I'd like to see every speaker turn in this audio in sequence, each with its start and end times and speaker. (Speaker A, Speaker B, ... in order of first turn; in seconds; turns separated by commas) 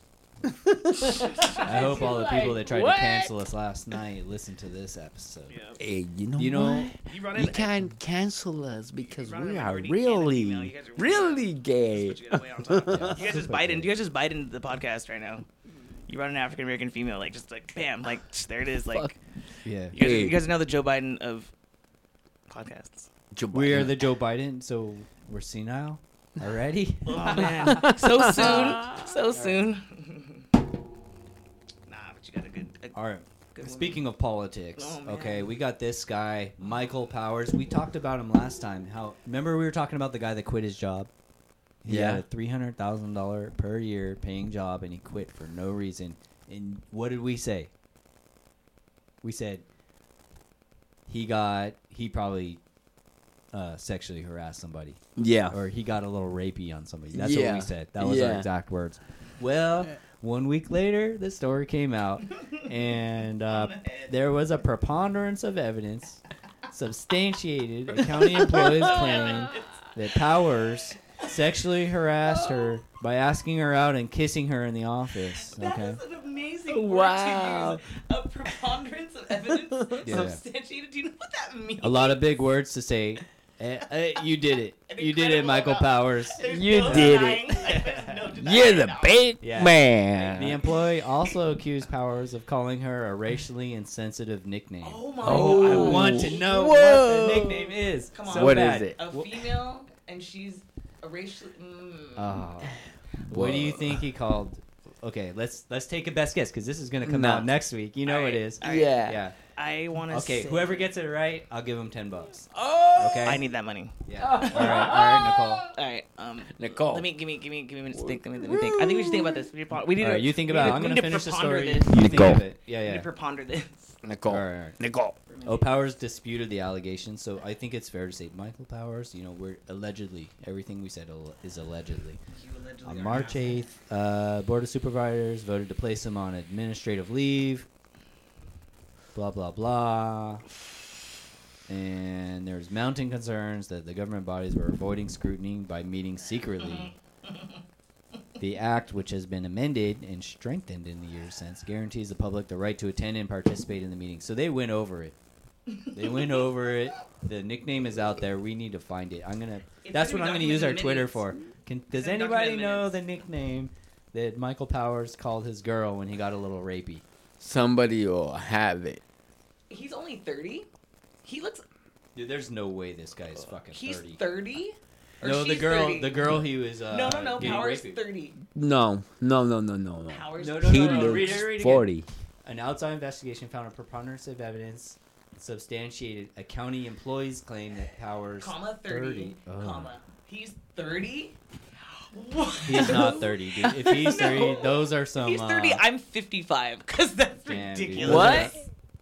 Speaker A: 0.4-3.3, Speaker B: 1.2-2.0, Speaker C: 1.6-5.5, Speaker B: 5.5-5.8, Speaker A: 5.8-13.3, Speaker C: 6.4-6.9, Speaker B: 7.0-7.7, Speaker B: 9.0-15.4, Speaker C: 12.9-13.9, Speaker B: 16.1-19.1, Speaker A: 18.9-19.2, Speaker C: 19.6-20.0, Speaker A: 19.9-20.4, Speaker B: 19.9-21.5, Speaker B: 22.5-23.1, Speaker A: 23.3-24.0, Speaker C: 23.5-27.9, Speaker B: 27.1-30.5, Speaker A: 27.6-29.5, Speaker B: 31.9-33.0, Speaker C: 32.9-41.1, Speaker B: 33.5-34.0, Speaker B: 34.8-35.5, Speaker C: 41.8-47.7, Speaker A: 41.9-42.2, Speaker C: 49.2-49.6, Speaker C: 51.1-52.6, Speaker C: 53.5-76.0, Speaker A: 55.2-55.6, Speaker A: 57.1-58.5, Speaker B: 63.5-64.1, Speaker A: 68.4-69.6, Speaker B: 68.8-69.8, Speaker A: 72.3-72.8, Speaker B: 75.5-82.3, Speaker A: 76.7-77.8, Speaker A: 79.5-80.3, Speaker C: 80.0-80.4, Speaker C: 81.8-88.1, Speaker B: 84.9-89.2, Speaker A: 86.4-87.7, Speaker A: 88.3-90.6, Speaker C: 89.4-99.4, Speaker B: 94.8-96.5, Speaker A: 95.2-97.7, Speaker B: 97.0-102.4, Speaker A: 98.2-99.0, Speaker C: 102.2-109.4, Speaker A: 103.3-104.0, Speaker A: 107.0-107.5, Speaker B: 108.0-109.0, Speaker A: 108.6-109.2, Speaker B: 109.5-110.8, Speaker C: 110.1-113.4, Speaker A: 112.5-113.4, Speaker B: 113.2-124.0, Speaker C: 114.0-115.7, Speaker A: 114.2-115.7, Speaker A: 116.5-117.1, Speaker A: 117.9-119.5, Speaker C: 120.0-123.1, Speaker A: 120.6-120.8, Speaker A: 121.9-122.4, Speaker A: 124.0-125.2, Speaker C: 124.2-124.8, Speaker B: 125.3-125.7, Speaker C: 125.4-132.2, Speaker B: 132.3-133.7, Speaker C: 132.8-137.7, Speaker C: 139.1-140.4, Speaker C: 141.7-146.9, Speaker C: 148.4-155.2, Speaker B: 155.8-156.1, Speaker C: 155.9-167.0, Speaker B: 159.8-161.2, Speaker B: 161.9-162.9, Speaker A: 167.4-169.0, Speaker B: 169.7-170.7, Speaker B: 171.2-171.6, Speaker C: 172.1-174.2, Speaker B: 173.7-176.3, Speaker C: 175.2-177.9, Speaker B: 176.9-178.4, Speaker A: 178.5-182.1, Speaker B: 180.0-181.4, Speaker C: 180.4-181.9, Speaker C: 182.4-189.9, Speaker B: 188.4-198.6, Speaker C: 192.6-195.8, Speaker C: 197.4-198.6, Speaker A: 198.0-198.6